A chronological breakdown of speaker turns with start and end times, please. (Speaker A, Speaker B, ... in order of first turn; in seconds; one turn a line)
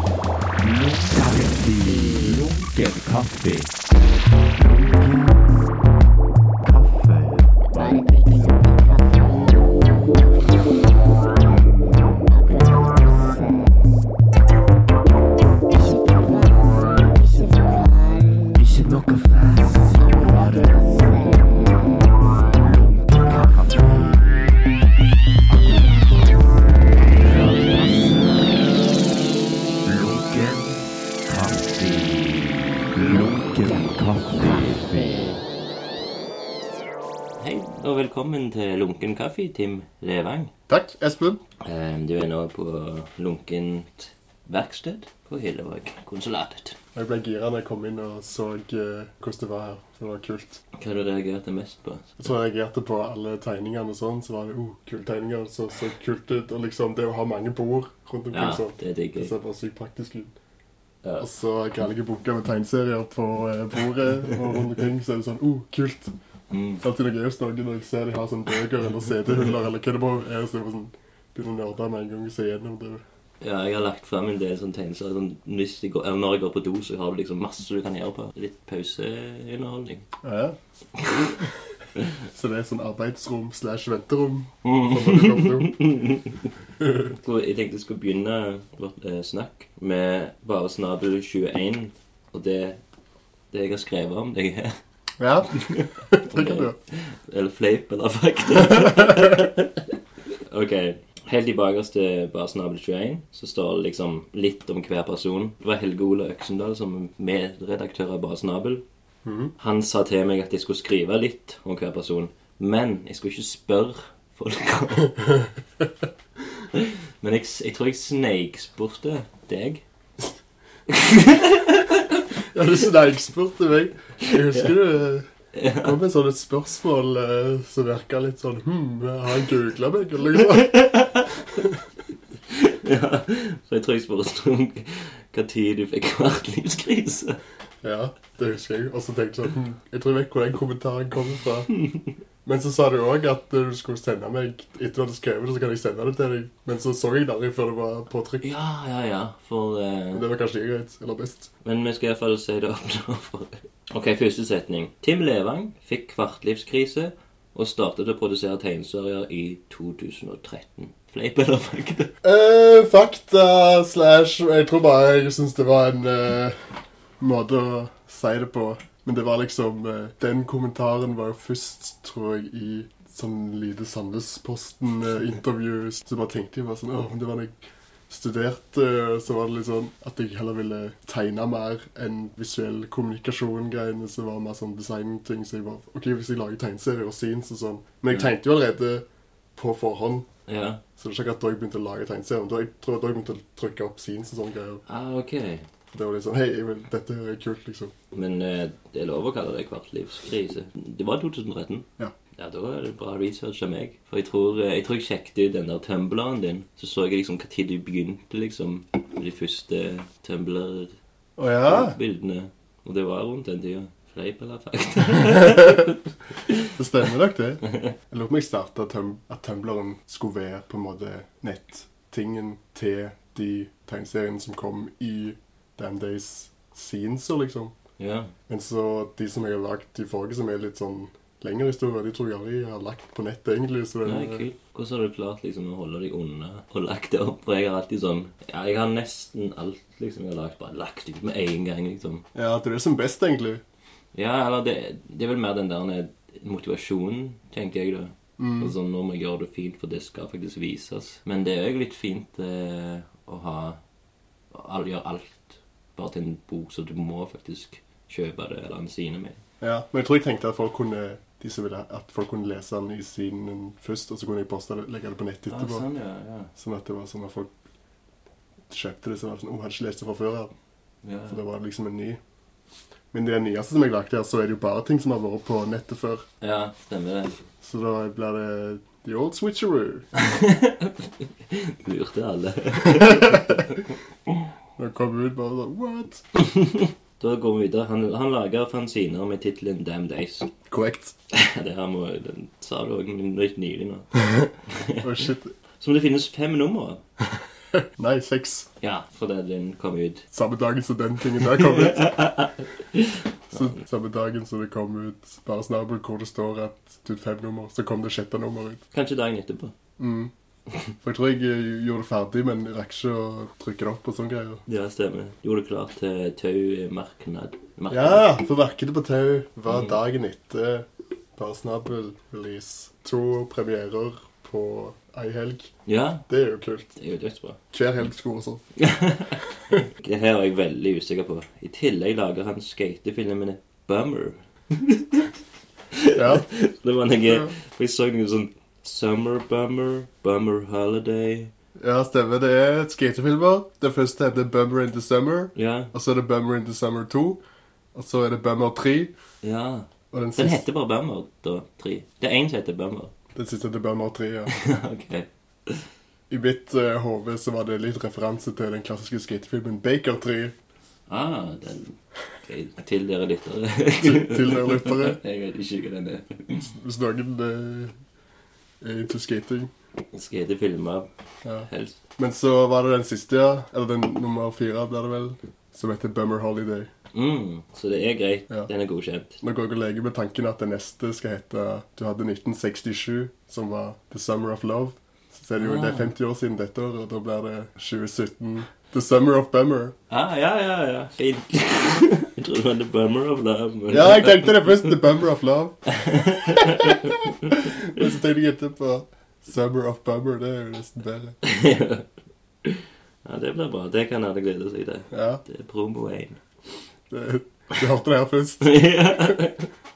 Speaker A: 0.6-3.8
Speaker A: 4.5-5.5
Speaker A: 6.6-9.7
Speaker A: 11.5-13.3
Speaker A: 18.4-21.7
Speaker A: 22.9-24.6
Speaker A: 25.5-26.5
Speaker A: 27.1-28.8
Speaker A: 29.8-35.4
Speaker B: 37.4-40.5
Speaker C: 40.7-41.4
Speaker B: 41.6-46.8
Speaker C: 46.9-50.6
Speaker B: 50.7-52.2
Speaker C: 52.2-60.3
Speaker B: 58.3-59.3
Speaker C: 61.2-66.1
Speaker B: 66.5-66.8
Speaker C: 66.8-73.0
Speaker B: 73.4-80.1
Speaker C: 80.2-80.6
Speaker C: 81.1-81.4
Speaker C: 82.2-85.8
Speaker B: 84.6-86.5
Speaker C: 86.8-87.1
Speaker B: 87.2-92.8
Speaker B: 93.5-94.8
Speaker C: 95.2-96.8
Speaker B: 95.5-99.9
Speaker B: 100.5-108.8
Speaker C: 109.2-109.5
Speaker B: 109.6-115.2
Speaker B: 116.7-119.8
Speaker B: 120.9-122.2
Speaker C: 122.5-125.3
Speaker B: 124.2-124.7
Speaker B: 125.5-126.0
Speaker C: 125.8-131.8
Speaker B: 130.6-131.3
Speaker B: 132.5-137.4
Speaker C: 137.8-141.7
Speaker C: 142.4-148.5
Speaker B: 148.4-150.2
Speaker C: 150.1-151.5
Speaker B: 151.6-162.1
Speaker C: 162.2-166.6
Speaker C: 167.2-177.6
Speaker C: 178.1-190.3
Speaker B: 190.5-190.8
Speaker C: 191.0-194.8
Speaker B: 194.8-195.6
Speaker C: 195.9-197.9
Speaker B: 198.1-210.9
Speaker C: 211.4-211.9
Speaker B: 211.7-216.7
Speaker C: 215.5-215.9
Speaker C: 216.7-227.7
Speaker B: 228.0-228.3
Speaker C: 228.5-234.5
Speaker B: 234.0-242.2
Speaker C: 242.3-243.6
Speaker B: 244.1-253.8
Speaker C: 248.4-248.7
Speaker B: 254.5-259.4
Speaker C: 259.6-265.8
Speaker B: 265.5-266.5
Speaker C: 266.6-267.5
Speaker C: 268.7-270.5
Speaker B: 271.0-271.4
Speaker C: 271.3-272.2
Speaker C: 273.1-276.2
Speaker B: 276.4-277.4
Speaker C: 277.6-280.1
Speaker B: 280.1-283.9
Speaker C: 282.8-283.6
Speaker C: 284.8-286.2
Speaker B: 286.4-290.5
Speaker C: 290.7-291.1
Speaker B: 291.3-295.0
Speaker C: 295.0-295.5
Speaker B: 295.8-297.0
Speaker C: 297.7-298.7
Speaker B: 298.8-300.2
Speaker C: 300.3-302.2
Speaker B: 301.5-303.8
Speaker C: 303.5-308.8
Speaker B: 308.9-309.7
Speaker C: 310.0-310.3
Speaker C: 311.0-314.6
Speaker B: 314.7-318.3
Speaker C: 317.9-325.7
Speaker B: 319.7-319.9
Speaker B: 325.9-326.2
Speaker C: 326.3-326.9
Speaker B: 326.9-327.6
Speaker C: 327.7-328.6
Speaker B: 328.8-335.3
Speaker B: 335.9-341.5
Speaker C: 336.1-336.4
Speaker C: 337.2-337.5
Speaker C: 341.8-347.4
Speaker B: 345.5-345.9
Speaker C: 347.9-349.1
Speaker B: 349.4-353.1
Speaker C: 350.1-350.6
Speaker C: 353.3-354.5
Speaker B: 354.5-355.8
Speaker C: 356.3-360.5
Speaker B: 361.1-366.6
Speaker C: 364.0-365.2
Speaker C: 366.5-367.9
Speaker C: 368.8-369.7
Speaker B: 370.1-371.1
Speaker B: 371.6-372.0
Speaker C: 372.2-376.9
Speaker B: 377.1-379.4
Speaker C: 379.4-389.9
Speaker B: 385.6-386.1
Speaker B: 390.1-395.0
Speaker C: 393.9-395.8
Speaker B: 395.9-398.1
Speaker C: 396.4-401.4
Speaker B: 401.4-402.1
Speaker B: 402.6-406.4
Speaker C: 405.1-405.4
Speaker C: 407.1-409.3
Speaker B: 408.6-409.7